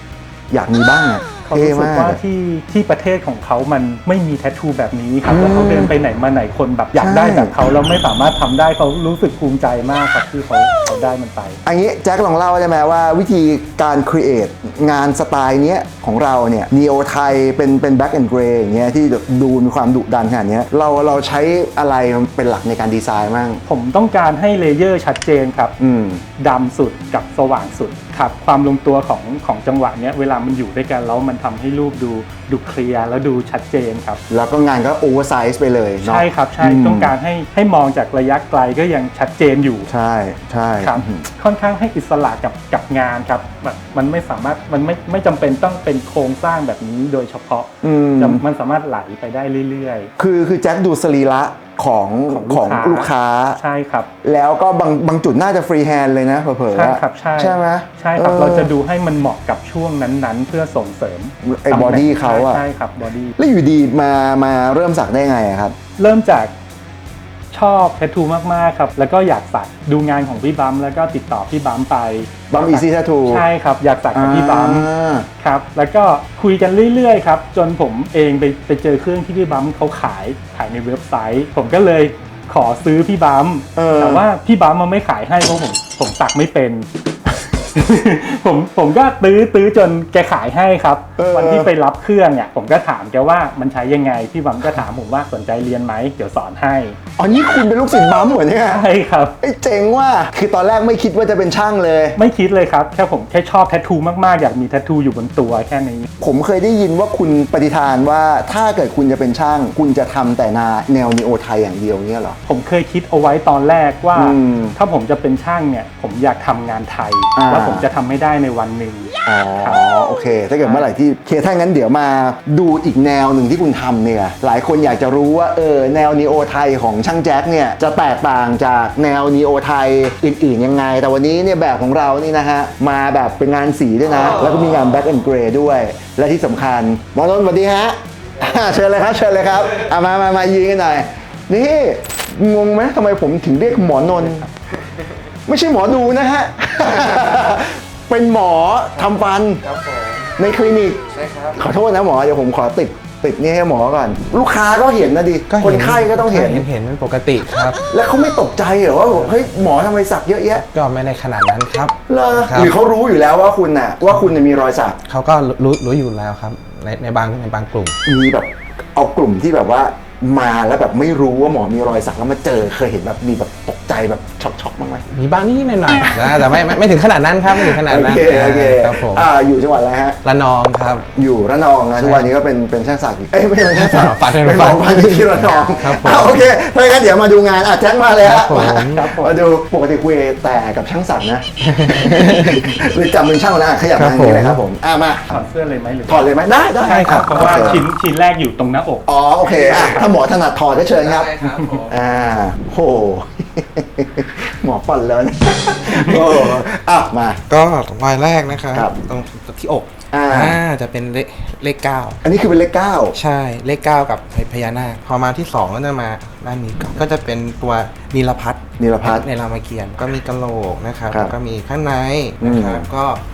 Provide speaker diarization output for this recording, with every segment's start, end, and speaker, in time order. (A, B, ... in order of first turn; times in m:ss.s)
0:00.5-0:02.2 A
0:01.4-0:11.6 B
0:05.3-0:05.9 A
0:07.0-0:07.5 A
0:11.6-0:23.6 A
0:23.6-0:25.7 B
0:25.8-0:26.2 A
0:26.4-0:34.2 B
0:34.3-0:37.1 A
0:36.0-0:39.9 B
0:39.9-0:41.3 A
0:40.8-0:50.1 B
0:47.8-0:48.4 A
0:50.2-0:53.6 A
0:52.3-0:54.1 B
0:54.2-0:58.7 A
0:56.7-1:03.3 B
1:01.4-1:02.6 A
1:03.4-1:05.7 A
1:06.0-1:06.5 B
1:07.5-1:14.9 B
1:12.5-1:13.4 A
1:14.1-1:15.3 A
1:15.4-1:26.9 B
1:23.7-1:24.3 A
1:27.7-1:37.0 B
1:31.2-1:31.7 A
1:37.2-1:38.8 A
1:38.7-1:39.3 B
1:39.4-1:42.2 A
1:42.2-1:46.1 B
1:46.2-1:52.4 A
1:52.4-1:59.8 B
1:54.1-1:54.8 A
1:57.4-1:57.9 A
1:59.2-2:24.5 A
2:25.5-2:29.6 A
2:29.6-2:30.3 C
2:30.4-2:31.0 A
2:31.1-2:31.6 C
2:31.6-2:36.7 A
2:35.5-2:37.8 C
2:37.7-2:40.6 A
2:39.1-2:39.4 C
2:40.7-2:42.8 C
2:42.1-2:45.0 A
2:45.1-2:47.9 C
2:48.0-2:55.0 A
2:55.1-2:59.3 C
2:56.1-2:56.8 A
2:57.4-3:00.2 A
3:00.2-3:01.1 C
3:01.1-3:15.3 A
3:02.0-3:02.3 C
3:03.7-3:06.4 C
3:08.2-3:09.0 C
3:08.9-3:09.4 B
3:11.7-3:12.7 C
3:13.9-3:14.6 C
3:15.3-3:19.0 B
3:16.1-3:17.8 A
3:16.8-3:17.8 C
3:19.1-3:21.3 A
3:19.4-3:20.0 C
3:21.0-3:22.0 C
3:21.9-3:27.4 A
3:25.9-3:26.6 C
3:27.5-3:32.2 C
3:28.7-3:29.0 A
3:30.1-3:30.6 A
3:32.2-3:33.2 A
3:33.1-3:43.2 C
3:38.8-3:39.2 A
3:41.1-3:41.3 A
3:42.4-3:42.9 A